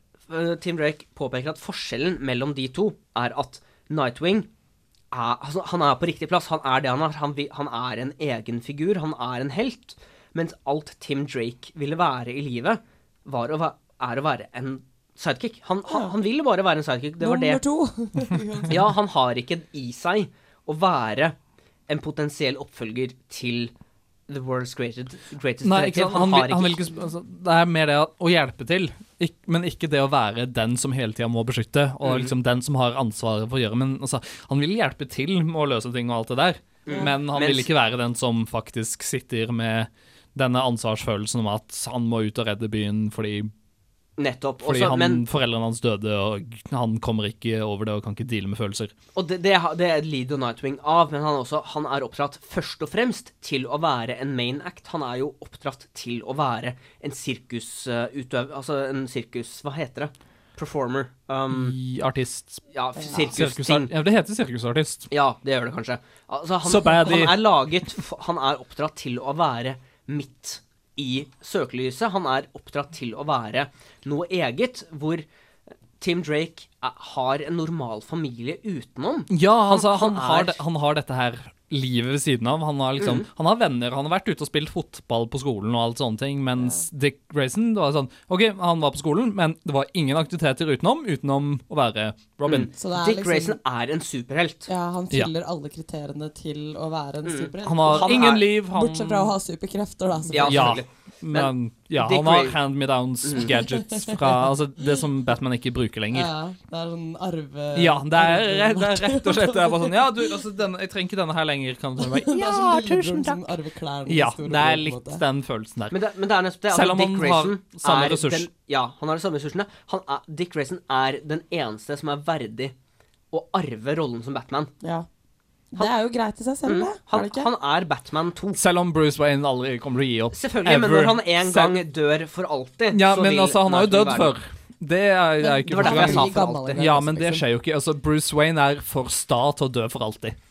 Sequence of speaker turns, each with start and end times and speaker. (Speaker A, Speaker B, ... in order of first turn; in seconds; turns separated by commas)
Speaker A: 0.3-4.5, Speaker A: 5.1-17.6, Speaker B: 17.2-18.8, Speaker A: 18.7-21.4, Speaker A: 21.9-23.7, Speaker A: 24.3-26.9, Speaker C: 25.6-43.5, Speaker A: 32.0-32.3, Speaker A: 36.9-37.7, Speaker A: 44.2-45.2, Speaker C: 44.6-48.9, Speaker A: 49.1-61.8, Speaker C: 61.5-65.1, Speaker A: 62.7-63.9, Speaker A: 65.1-75.2, Speaker C: 66.6-67.4, Speaker A: 76.0-80.6, Speaker C: 79.3-92.7, Speaker A: 83.0-83.3, Speaker B: 86.6-86.8, Speaker A: 92.5-94.7, Speaker B: 92.8-93.6, Speaker B: 94.7-100.7, Speaker A: 97.2-98.5, Speaker C: 97.6-99.3, Speaker A: 100.3-102.6, Speaker C: 100.4-106.3, Speaker A: 103.2-103.5, Speaker B: 103.8-104.3, Speaker B: 106.1-110.3, Speaker C: 107.7-113.4, Speaker B: 112.0-115.2, Speaker C: 114.1-116.0, Speaker A: 115.9-122.7, Speaker C: 116.7-118.5, Speaker A: 123.3-124.7, Speaker B: 125.7-127.5, Speaker A: 126.6-128.6, Speaker C: 128.5-131.8, Speaker A: 130.3-134.3, Speaker C: 132.9-140.3, Speaker B: 135.4-137.4, Speaker A: 135.7-136.8